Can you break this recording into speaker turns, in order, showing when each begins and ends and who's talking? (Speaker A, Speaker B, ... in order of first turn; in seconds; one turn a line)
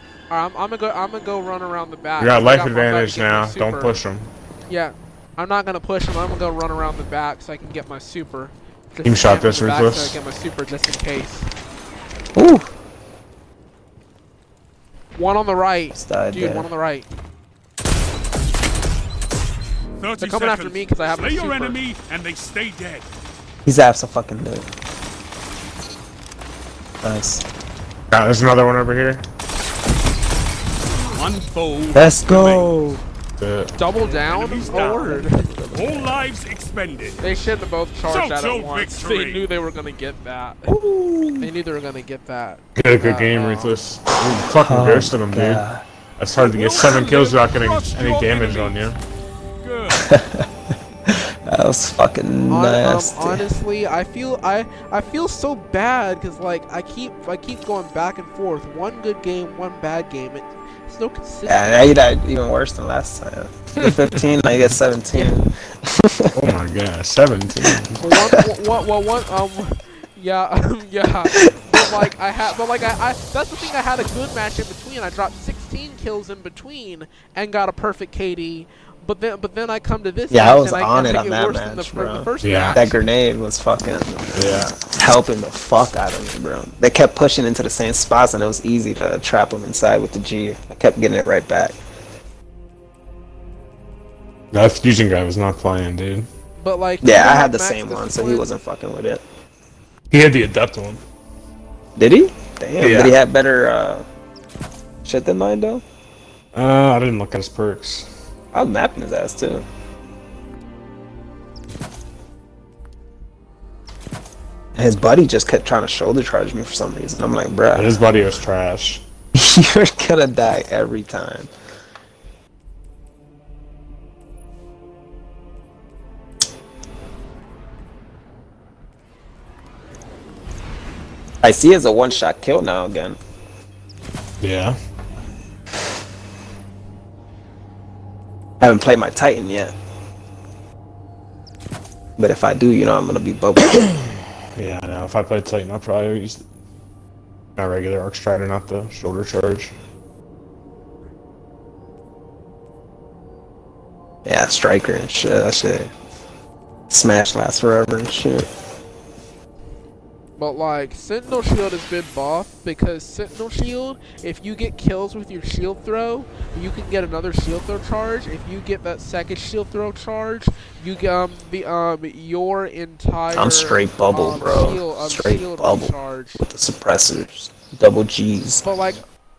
Speaker A: 0.3-4.0
Speaker B: 2.2-4.3
Speaker A: 4.7-11.5
Speaker B: 9.0-10.2
Speaker C: 12.3-12.7
Speaker A: 15.1-17.1
Speaker C: 15.9-16.7
Speaker D: 20.0-23.1
Speaker A: 20.2-21.8
Speaker C: 23.6-24.7
Speaker C: 27.0-27.4
Speaker B: 28.1-29.2
Speaker D: 31.1-32.8
Speaker C: 31.9-33.0
Speaker B: 33.4-33.7
Speaker A: 33.8-35.5
Speaker D: 34.1-35.2
Speaker C: 34.4-36.3
Speaker D: 35.7-37.2
Speaker A: 37.2-40.8
Speaker D: 38.1-39.4
Speaker C: 40.7-41.5
Speaker A: 41.4-43.7
Speaker B: 42.8-45.6
Speaker C: 44.5-45.8
Speaker B: 46.2-49.0
Speaker D: 46.3-48.9
Speaker D: 49.6-50.1
Speaker C: 49.9-50.5
Speaker C: 51.0-53.5
Speaker A: 52.5-61.9
Speaker C: 61.5-66.4
Speaker A: 65.1-65.4
Speaker B: 66.3-68.0
Speaker C: 67.5-68.5
Speaker A: 68.0-83.0
Speaker C: 71.3-72.1
Speaker C: 80.3-91.7
Speaker B: 82.4-82.8
Speaker B: 84.3-84.8
Speaker B: 94.5-96.3
Speaker A: 96.6-98.5
Speaker C: 97.0-99.2
Speaker B: 100.1-101.0
Speaker C: 102.0-104.0
Speaker B: 102.8-103.2
Speaker C: 105.0-105.8
Speaker B: 106.5-108.1
Speaker C: 108.5-109.7
Speaker C: 114.7-118.0
Speaker B: 117.7-119.0
Speaker C: 119.3-121.5
Speaker C: 131.4-133.2
Speaker B: 134.4-134.8
Speaker C: 138.6-139.7
Speaker C: 142.2-144.0
Speaker B: 144.0-146.4
Speaker B: 147.6-149.7
Speaker C: 154.2-155.9
Speaker C: 156.9-158.5
Speaker A: 160.4-176.4
Speaker C: 173.3-178.7
Speaker A: 178.6-179.0